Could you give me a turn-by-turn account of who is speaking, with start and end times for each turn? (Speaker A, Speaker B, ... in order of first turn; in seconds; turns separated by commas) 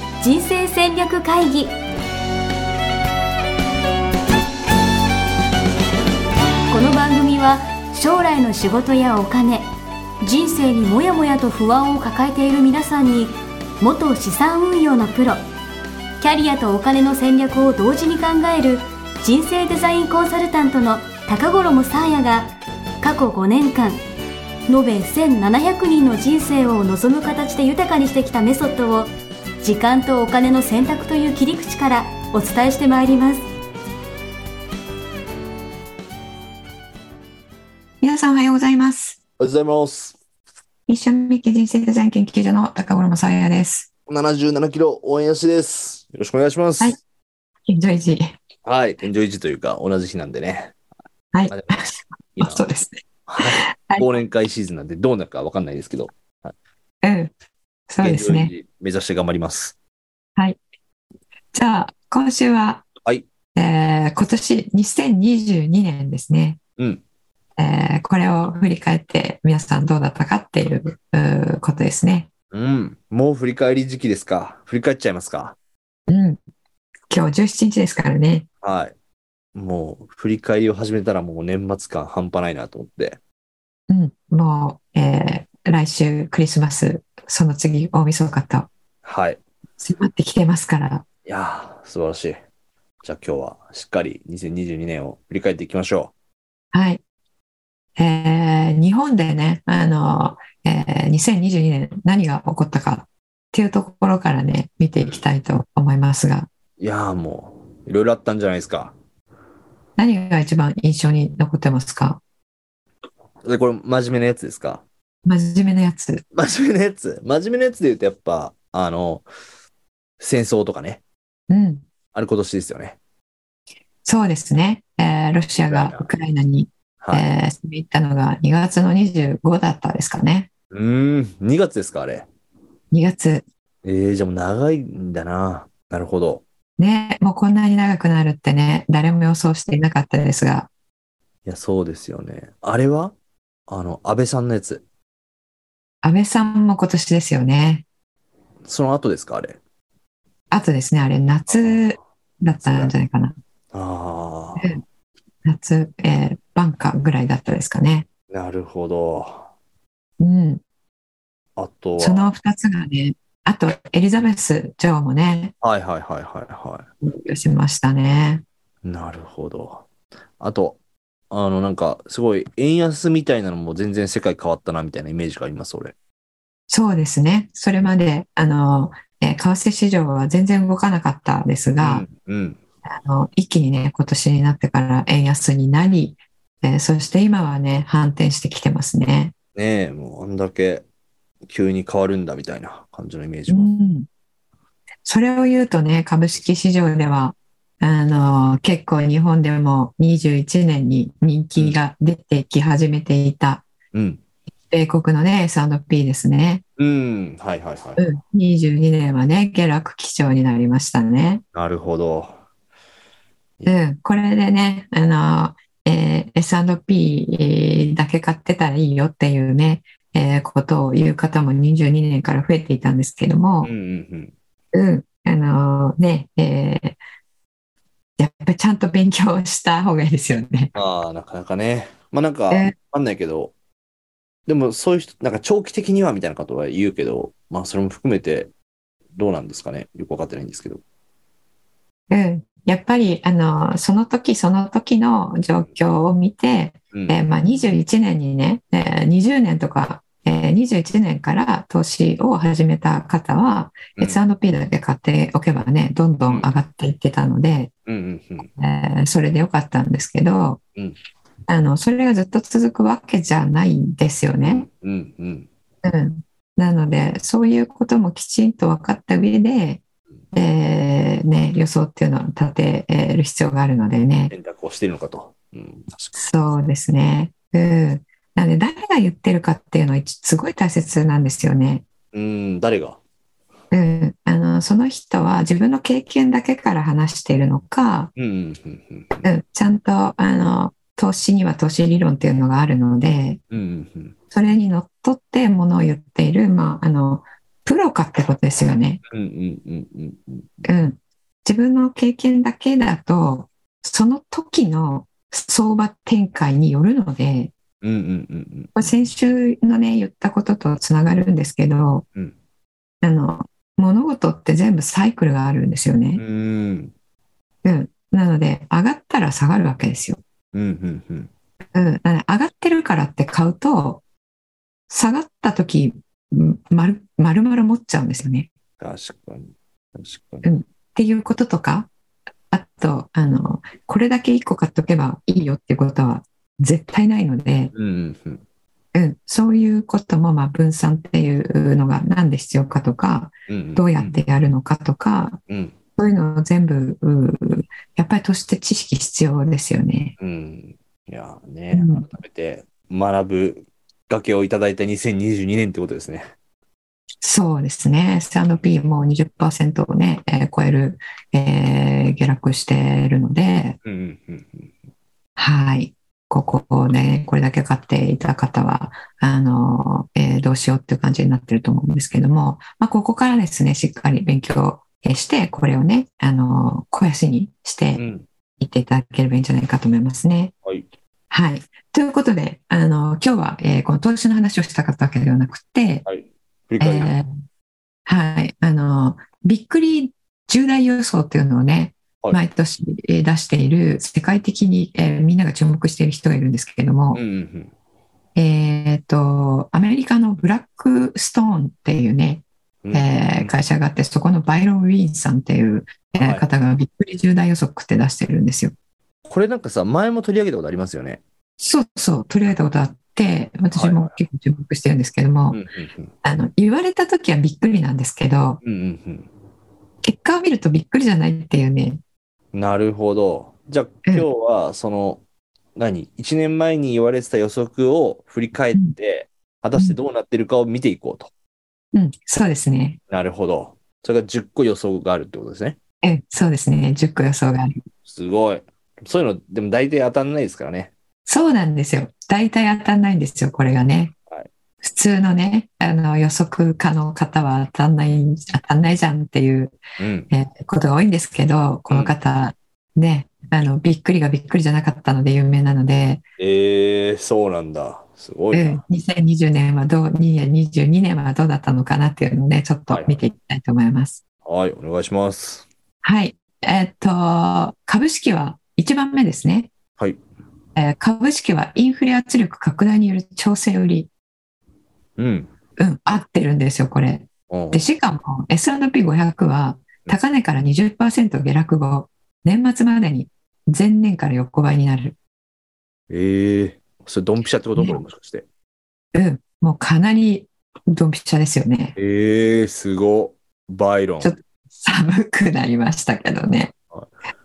Speaker A: 0.2-1.8, Speaker A: 6.7-9.7, Speaker A: 10.2-15.4, Speaker A: 16.2-24.0, Speaker A: 24.7-29.1, Speaker A: 29.6-33.4, Speaker B: 38.0-39.2, Speaker C: 39.4-40.2, Speaker B: 40.9-43.9, Speaker C: 44.1-47.0, Speaker B: 47.7-48.4, Speaker C: 48.6-50.7, Speaker B: 51.3-54.1, Speaker C: 51.5-51.8, Speaker C: 52.4-52.6, Speaker C: 53.3-56.5, Speaker B: 57.0-57.3, Speaker B: 57.9-58.5, Speaker C: 58.0-59.8, Speaker B: 61.5-62.9, Speaker B: 63.5-66.6, Speaker B: 67.6-72.3, Speaker C: 72.5-75.6, Speaker B: 76.1-76.4, Speaker B: 77.1-78.5, Speaker C: 78.6-78.9, Speaker C: 79.5-83.2, Speaker B: 83.9-88.7, Speaker C: 89.0-89.4, Speaker B: 89.8-91.0, Speaker C: 91.2-92.4, Speaker C: 93.0-96.1, Speaker B: 96.7-97.0, Speaker B: 98.0-106.5, Speaker C: 106.8-108.9, Speaker B: 110.0-112.2, Speaker C: 113.4-114.8, Speaker B: 115.3-116.2, Speaker C: 116.3-119.2, Speaker C: 120.2-121.0, Speaker B: 121.5-121.8, Speaker C: 122.1-123.0, Speaker B: 124.0-130.5, Speaker C: 125.5-126.1, Speaker C: 127.0-127.3, Speaker C: 130.7-132.3, Speaker B: 132.9-133.4, Speaker C: 133.8-136.4, Speaker B: 136.8-140.7, Speaker C: 141.4-143.1, Speaker C: 143.7-144.8, Speaker B: 146.0-147.8, Speaker C: 148.6-149.6, Speaker B: 150.5-153.4, Speaker C: 151.5-151.8, Speaker C: 152.6-152.9, Speaker C: 153.7-154.7, Speaker B: 154.6-154.8, Speaker B: 155.4-158.1, Speaker C: 158.3-159.5, Speaker B: 160.2-160.6, Speaker C: 161.6-162.3, Speaker B: 162.0-165.5, Speaker C: 165.6-166.9, Speaker B: 167.0-168.4, Speaker C: 168.8-169.9, Speaker C: 170.4-170.8, Speaker C: 171.3-175.9, Speaker B: 176.7-182.1, Speaker C: 181.8-182.6, Speaker B: 182.9-189.3, Speaker C: 189.6-190.8, Speaker C: 191.5-193.7, Speaker B: 193.5-194.1, Speaker B: 195.1-203.7, Speaker C: 203.9-204.2, Speaker B: 204.7-206.6, Speaker C: 206.8-208.0, Speaker B: 208.0-211.4, Speaker C: 211.5-212.3, Speaker B: 213.7-223.7, Speaker C: 223.6-224.3, Speaker B: 224.7-227.0, Speaker B: 228.2-230.7, Speaker C: 230.8-233.5, Speaker C: 234.5-238.5, Speaker C: 239.2-240.8, Speaker B: 242.1-257.7, Speaker C: 257.9-258.5, Speaker B: 258.5-260.6, Speaker B: 261.5-264.7, Speaker C: 264.4-265.5, Speaker B: 265.8-269.8, Speaker B: 270.3-274.3, Speaker C: 274.3-276.2, Speaker B: 276.1-281.8, Speaker C: 282.1-283.0, Speaker B: 283.7-288.1, Speaker C: 288.2-289.3, Speaker B: 289.2-293.4, Speaker C: 293.5-294.1, Speaker B: 294.3-299.0, Speaker C: 299.1-300.5, Speaker B: 300.6-307.5, Speaker C: 307.8-308.7, Speaker B: 308.8-312.1, Speaker B: 313.0-316.2, Speaker C: 316.2-316.9, Speaker B: 317.6-320.2, Speaker C: 320.5-321.3, Speaker B: 321.8-324.0, Speaker B: 324.9-328.5, Speaker C: 328.8-330.4, Speaker B: 330.4-331.9, Speaker B: 332.5-337.7, Speaker C: 337.7-338.4, Speaker B: 338.9-345.4, Speaker C: 343.5-344.2, Speaker C: 345.5-345.8, Speaker B: 346.0-350.1, Speaker C: 350.2-356.3, Speaker B: 351.7-352.1, Speaker B: 357.2-363.8, Speaker C: 363.8-364.8, Speaker B: 365.4-378.0, Speaker C: 378.0-378.3, Speaker B: 378.6-380.5, Speaker B: 381.3-386.1, Speaker C: 386.1-387.1, Speaker B: 386.8-387.3, Speaker B: 388.1-397.2, Speaker C: 397.1-397.7, Speaker B: 398.4-408.7, Speaker C: 402.8-403.5, Speaker C: 406.2-406.5, Speaker C: 409.3-411.2, Speaker B: 411.6-415.6, Speaker C: 413.8-414.1, Speaker C: 415.5-416.1, Speaker B: 416.2-418.6, Speaker C: 418.6-419.3, Speaker B: 420.0-422.0, Speaker C: 422.5-425.2, Speaker C: 425.8-431.3, Speaker B: 431.9-433.0, Speaker C: 433.1-435.8, Speaker B: 436.0-437.8, Speaker C: 438.1-440.9, Speaker B: 441.3-444.1, Speaker B: 444.8-449.8, Speaker C: 450.0-450.3, Speaker B: 450.3-456.2, Speaker C: 456.4-458.8, Speaker B: 458.5-464.2, Speaker C: 462.9-463.2, Speaker C: 464.4-465.7, Speaker B: 466.0-469.7, Speaker B: 470.8-474.1, Speaker C: 475.2-475.5, Speaker B: 475.8-485.2, Speaker C: 477.5-477.9, Speaker C: 486.1-488.4, Speaker B: 489.1-492.0, Speaker C: 492.0-494.4, Speaker B: 494.2-496.7